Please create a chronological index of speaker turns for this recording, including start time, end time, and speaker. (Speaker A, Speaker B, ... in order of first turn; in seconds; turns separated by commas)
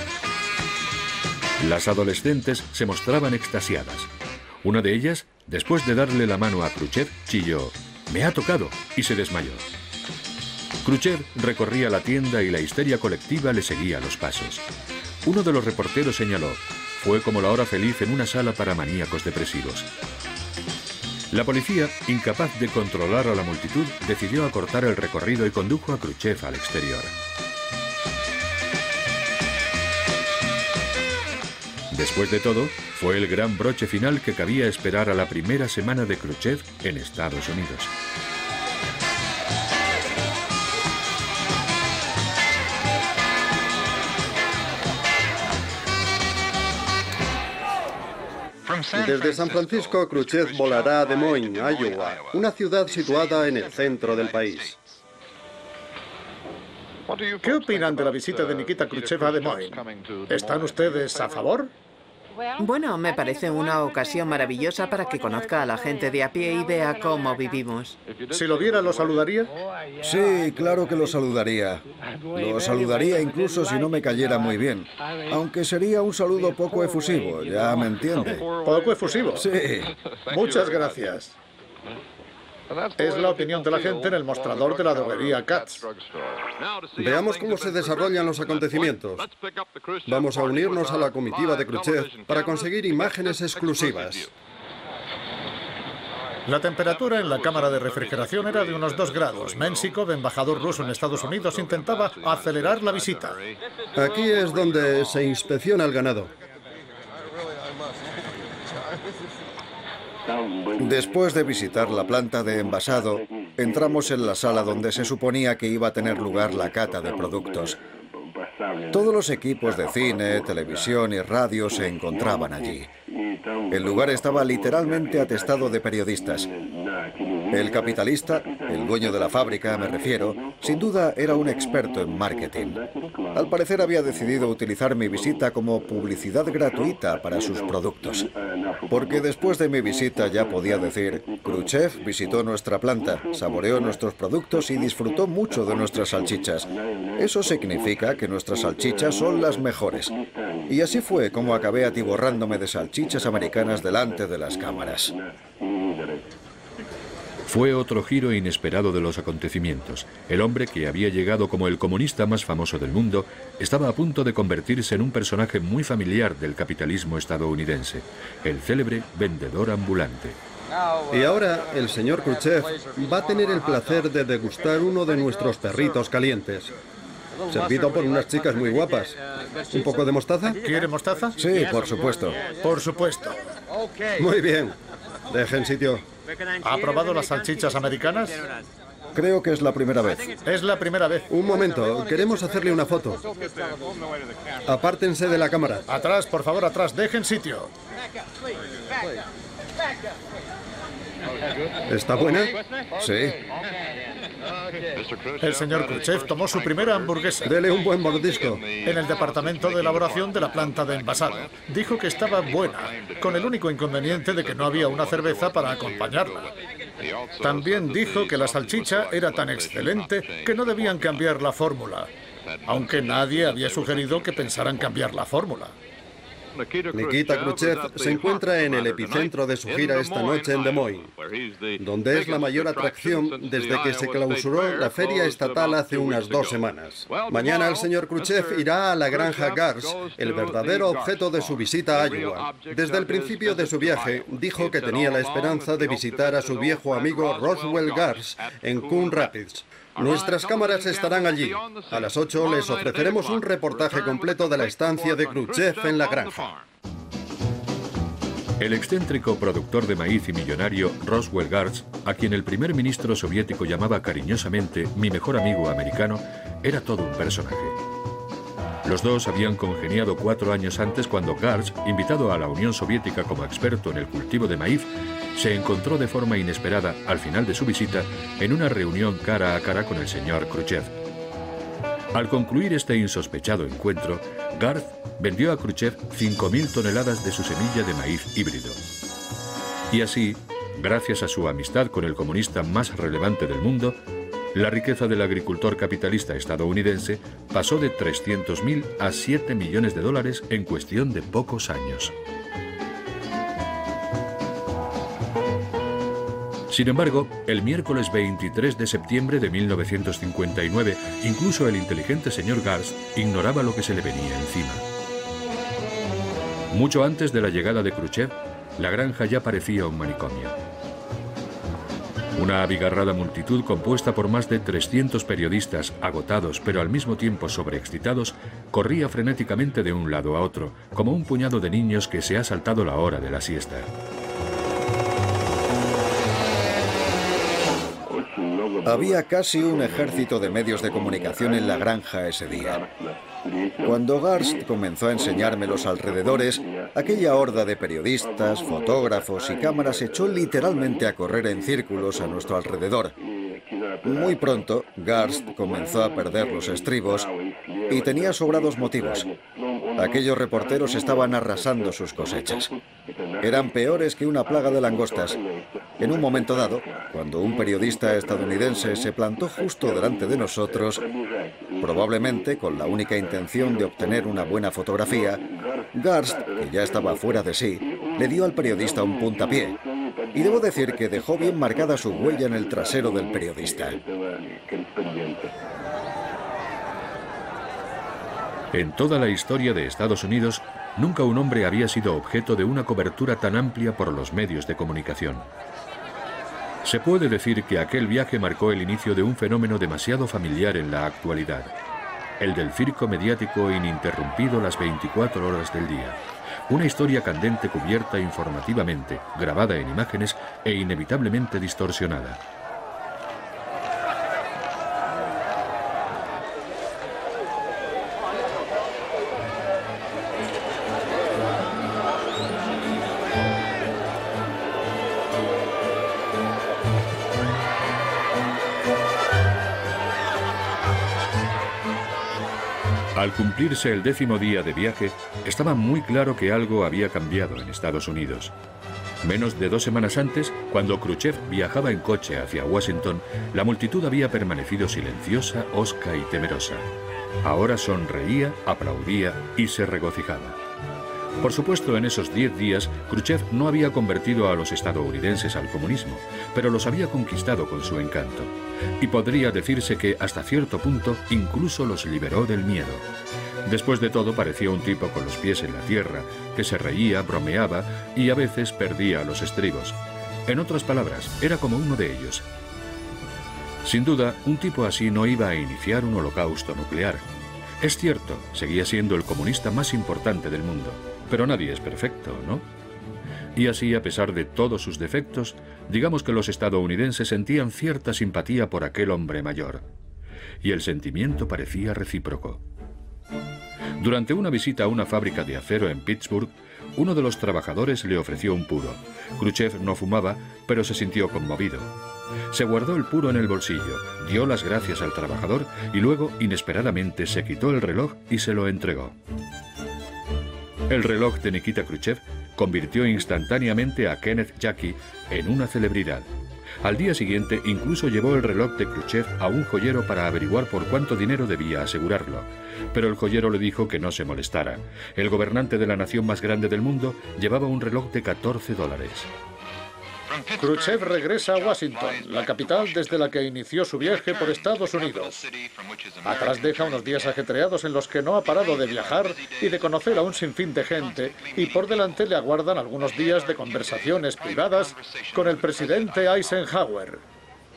Speaker A: 1.6-4.1, Speaker A: 4.6-9.8, Speaker A: 10.8-14.6, Speaker A: 15.2-19.9, Speaker A: 21.3-27.1, Speaker A: 31.9-37.9, Speaker B: 48.9-54.8, Speaker C: 57.4-61.7, Speaker D: 62.6-68.0, Speaker C: 68.3-69.5, Speaker E: 70.0-78.4, Speaker C: 78.4-79.5, Speaker E: 79.3-79.9, Speaker C: 80.3-81.3, Speaker C: 83.0-85.9, Speaker B: 87.0-89.3, Speaker B: 90.0-94.3, Speaker C: 96.5-103.4, Speaker B: 103.9-106.3, Speaker E: 110.8-117.8, Speaker E: 118.9-122.9, Speaker E: 123.7-126.5, Speaker E: 127.5-132.8, Speaker E: 133.3-138.3, Speaker E: 138.9-150.1, Speaker E: 150.7-155.2, Speaker A: 157.4-170.4, Speaker B: 171.1-176.7, Speaker B: 177.5-180.6, Speaker C: 180.5-181.4, Speaker E: 181.4-182.4, Speaker C: 182.5-183.4, Speaker B: 184.1-184.8, Speaker B: 185.3-186.1, Speaker C: 186.6-188.4, Speaker E: 189.1-190.3, Speaker C: 190.4-191.3, Speaker B: 191.3-193.2, Speaker B: 194.6-195.8, Speaker C: 195.9-197.7, Speaker B: 201.9-202.5, Speaker E: 203.0-203.4, Speaker C: 205.4-207.6, Speaker B: 207.4-208.7, Speaker C: 208.8-216.5, Speaker C: 217.4-222.1, Speaker C: 222.7-225.7, Speaker B: 226.9-231.1, Speaker B: 231.8-256.5, Speaker A: 258.6-267.8, Speaker A: 268.8-280.9, Speaker A: 282.1-288.8, Speaker A: 289.9-294.0, Speaker A: 294.5-302.1, Speaker A: 306.7-314.8, Speaker A: 316.7-320.6, Speaker A: 322.4-333.9, Speaker E: 338.8-342.9, Speaker E: 343.8-353.1, Speaker E: 354.0-357.3, Speaker E: 357.9-359.3, Speaker E: 359.9-362.7, Speaker E: 363.4-365.4, Speaker E: 366.0-371.1, Speaker E: 371.8-379.8, Speaker E: 380.3-384.0, Speaker A: 388.7-395.5, Speaker A: 396.8-401.7, Speaker A: 402.4-412.4, Speaker A: 433.1-438.5, Speaker A: 439.2-446.9, Speaker A: 447.4-450.6, Speaker A: 451.4-463.0, Speaker A: 463.6-472.4, Speaker A: 473.8-477.2, Speaker A: 477.8-482.6, Speaker A: 483.6-489.8, Speaker A: 490.6-492.6, Speaker A: 494.0-501.9, Speaker A: 502.5-509.1, Speaker A: 510.9-516.3, Speaker A: 516.8-529.3, Speaker C: 530.5-535.5, Speaker C: 536.2-547.2